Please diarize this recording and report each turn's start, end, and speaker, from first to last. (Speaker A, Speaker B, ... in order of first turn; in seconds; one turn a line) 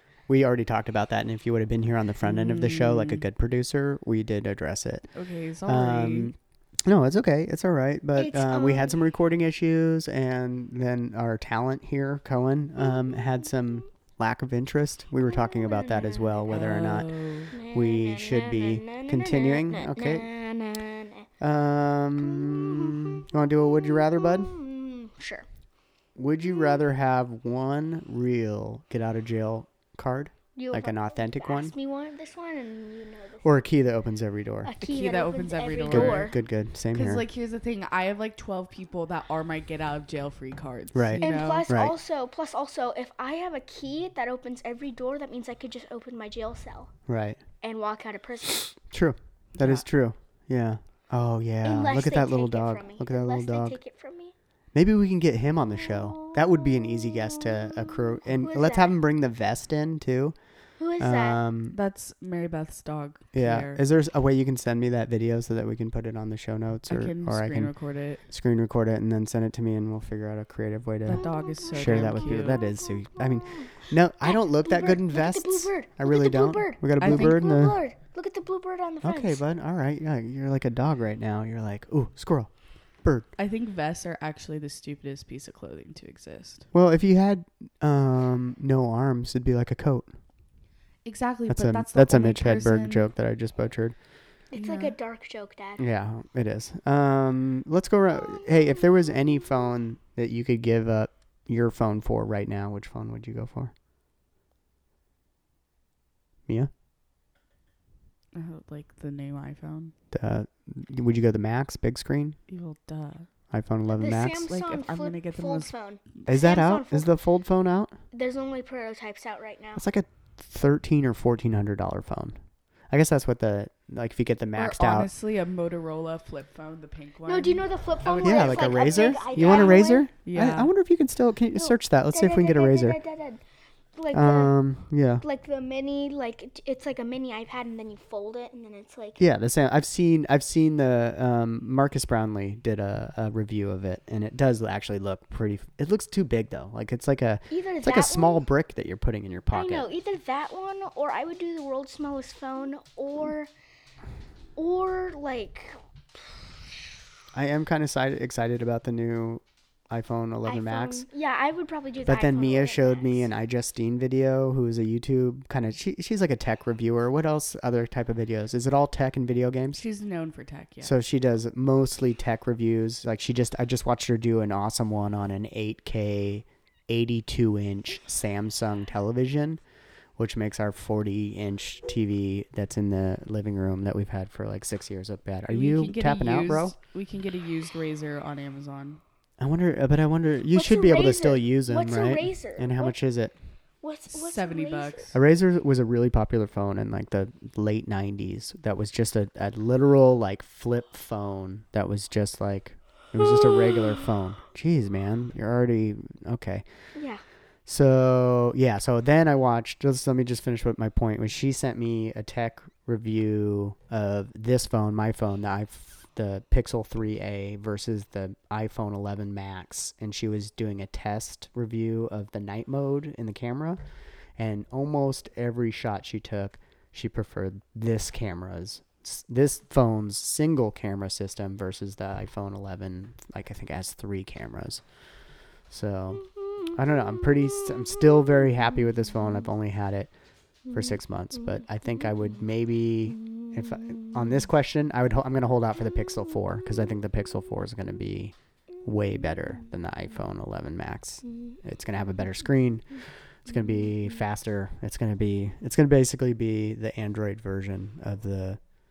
Speaker A: 0.3-5.1
Speaker B: 2.2-3.2
Speaker B: 5.1-6.3
Speaker A: 5.6-20.3
Speaker C: 8.2-8.9
Speaker C: 15.2-16.5
Speaker B: 16.5-17.5
Speaker C: 17.5-21.3
Speaker A: 21.4-24.5
Speaker C: 22.2-25.5
Speaker A: 26.1-31.7
Speaker C: 30.6-33.6
Speaker A: 33.4-34.7
Speaker C: 34.6-36.3
Speaker B: 34.8-41.7
Speaker A: 35.9-37.2
Speaker A: 40.9-41.9
Speaker C: 41.2-46.9
Speaker A: 47.1-47.4
Speaker C: 47.6-48.7
Speaker A: 48.9-53.8
Speaker B: 49.6-49.9
Speaker C: 51.6-54.3
Speaker A: 54.7-60.4
Speaker C: 55.7-59.0
Speaker C: 60.8-61.4
Speaker A: 61.0-61.8
Speaker B: 61.7-63.8
Speaker A: 63.3-67.7
Speaker B: 66.9-68.2
Speaker A: 68.3-77.8
Speaker B: 71.0-72.7
Speaker C: 71.8-79.4
Speaker B: 77.0-77.4
Speaker A: 79.0-82.5
Speaker A: 83.0-83.3
Speaker B: 83.4-86.7
Speaker A: 86.7-90.1
Speaker B: 91.0-93.1
Speaker A: 91.5-94.0
Speaker C: 94.5-95.8
Speaker B: 94.5-94.9
Speaker A: 95.8-103.7
Speaker C: 98.2-98.8
Speaker B: 108.3-109.9
Speaker A: 110.1-112.4
Speaker B: 112.5-113.3
Speaker A: 113.5-114.5
Speaker C: 113.9-117.1
Speaker B: 114.5-116.2
Speaker A: 116.2-117.9
Speaker C: 118.1-119.8
Speaker A: 119.8-122.4
Speaker A: 122.9-125.1
Speaker B: 124.5-127.7
Speaker C: 127.2-130.1
Speaker A: 128.1-133.0
Speaker B: 129.4-130.7
Speaker C: 131.5-133.4
Speaker C: 133.9-134.6
Speaker A: 134.1-135.2
Speaker C: 135.2-139.2
Speaker A: 139.2-149.9
Speaker C: 147.5-148.4
Speaker C: 149.5-153.5
Speaker C: 154.6-156.4
Speaker A: 157.3-161.1
Speaker C: 160.4-163.3
Speaker A: 162.0-169.8
Speaker B: 169.8-170.9
Speaker A: 170.8-179.6
Speaker A: 180.2-186.7
Speaker B: 185.5-189.0
Speaker A: 189.4-193.3
Speaker C: 190.5-192.9
Speaker C: 193.8-195.1
Speaker B: 194.1-195.2
Speaker A: 195.1-206.6
Speaker C: 206.9-207.2
Speaker A: 207.7-223.8
Speaker A: 224.4-234.8
Speaker A: 235.7-240.1
Speaker C: 240.7-240.9
Speaker A: 240.7-258.6
Speaker C: 243.2-244.1
Speaker C: 251.3-251.6